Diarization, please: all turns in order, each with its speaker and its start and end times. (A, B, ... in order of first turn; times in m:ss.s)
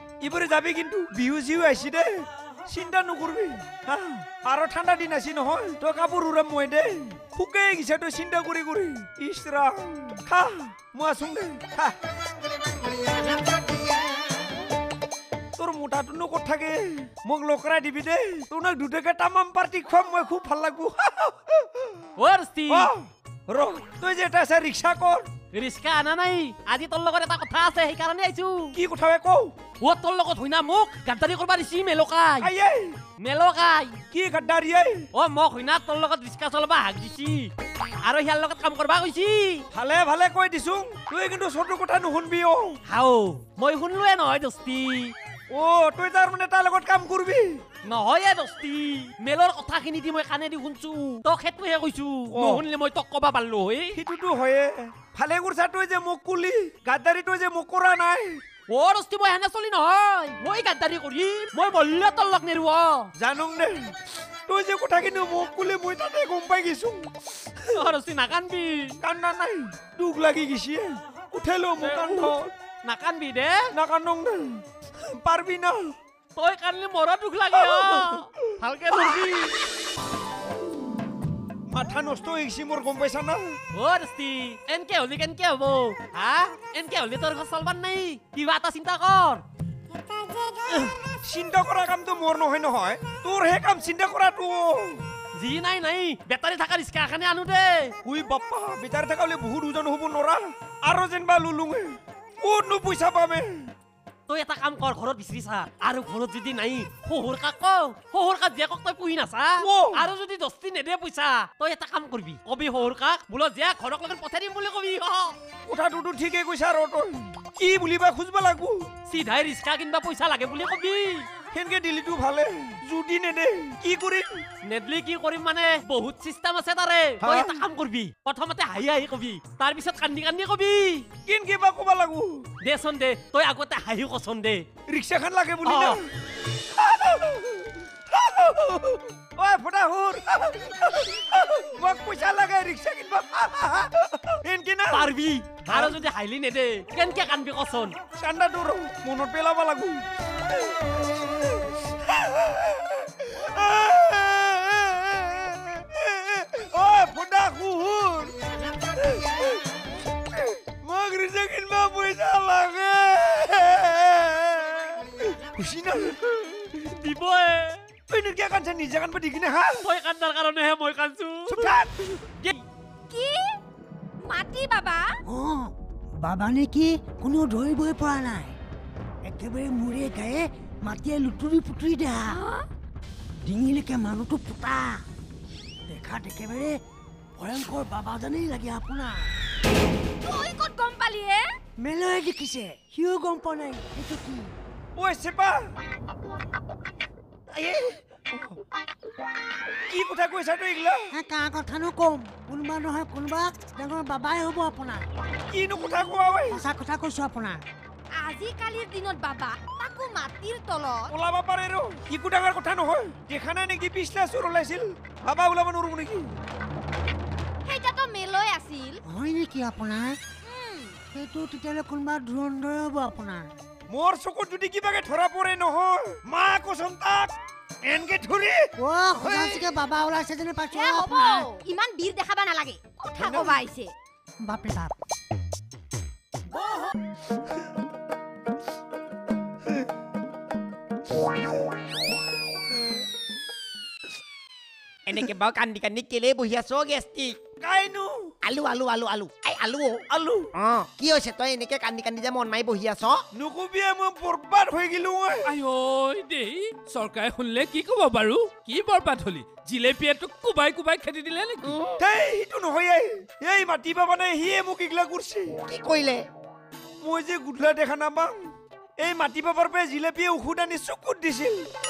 0:00.2-0:12.0 A
0:15.6-0:22.0 A
0:22.2-0:22.9 B
0:22.7-0:25.3 A
0:25.5-0:28.8 B
0:28.8-0:29.6 A
0:29.8-0:32.5 B
0:32.4-0:33.0 A
0:33.2-0:34.0 B
0:34.1-0:35.1 A
0:35.1-0:37.5 B
0:38.0-0:39.6 B
0:39.7-0:42.8 A
0:42.9-0:45.1 B
0:45.5-0:47.6 A
0:47.8-0:54.0 B
0:52.3-0:52.6 A
0:54.0-0:58.4 A
0:58.7-1:03.1 B
1:03.2-1:07.1 A
1:07.7-1:09.0 B
1:09.0-1:12.5 A
1:11.8-1:13.7 B
1:13.7-1:15.9 A
1:16.4-1:19.6 B
1:17.6-1:18.4 A
1:21.7-1:23.6 A
1:23.7-1:29.4 B
1:31.2-1:35.0 A
1:35.3-1:38.0 B
1:38.0-1:43.7 A
1:44.3-1:55.4 B
1:49.6-1:50.0 A
1:55.7-1:58.9 A
1:59.1-2:01.3 B
2:01.5-2:04.4 A
2:04.6-2:11.1 B
2:07.2-2:07.6 A
2:11.3-2:12.5 A
2:12.6-2:14.6 B
2:14.9-2:16.1 A
2:15.6-2:16.0 B
2:16.7-2:25.1 A
2:24.9-2:28.0 B
2:25.7-2:26.0 A
2:28.2-2:30.0 A
2:31.8-2:38.3 A
2:39.0-2:39.6 A
2:40.3-2:46.8 A
2:46.9-2:47.8 B
2:48.1-2:49.8 A
2:49.8-2:51.8 B
2:51.5-2:52.0 A
2:52.3-2:52.6 B
2:53.1-2:53.6 C
2:54.2-2:55.1 C
2:55.3-2:58.5 D
2:59.2-3:02.4 D
3:02.3-3:02.7 C
3:03.4-3:05.0 D
3:05.9-3:06.8 D
3:07.4-3:09.3 D
3:10.2-3:11.5 C
3:11.8-3:14.5 D
3:15.0-3:15.7 A
3:18.3-3:18.6 A
3:19.9-3:21.1 A
3:21.1-3:25.0 D
3:25.5-3:26.6 A
3:26.5-3:27.6 D
3:28.2-3:31.1 C
3:31.1-3:36.3 A
3:37.7-3:39.0 C
3:39.1-3:40.2 D
3:40.4-3:41.0 C
3:41.1-3:43.5 D
3:43.9-3:49.6 A
3:48.8-3:51.5 D
3:50.7-3:53.9 C
3:53.2-3:53.6 A
3:54.4-3:54.9 D
4:05.1-4:07.4 E
4:07.6-4:08.3 A
4:08.4-4:13.3 E
4:10.1-4:10.5 A
4:13.3-4:15.5 A
4:15.5-4:21.8 F
4:22.0-4:25.6 A
4:25.6-4:26.2 E
4:27.0-4:31.7 A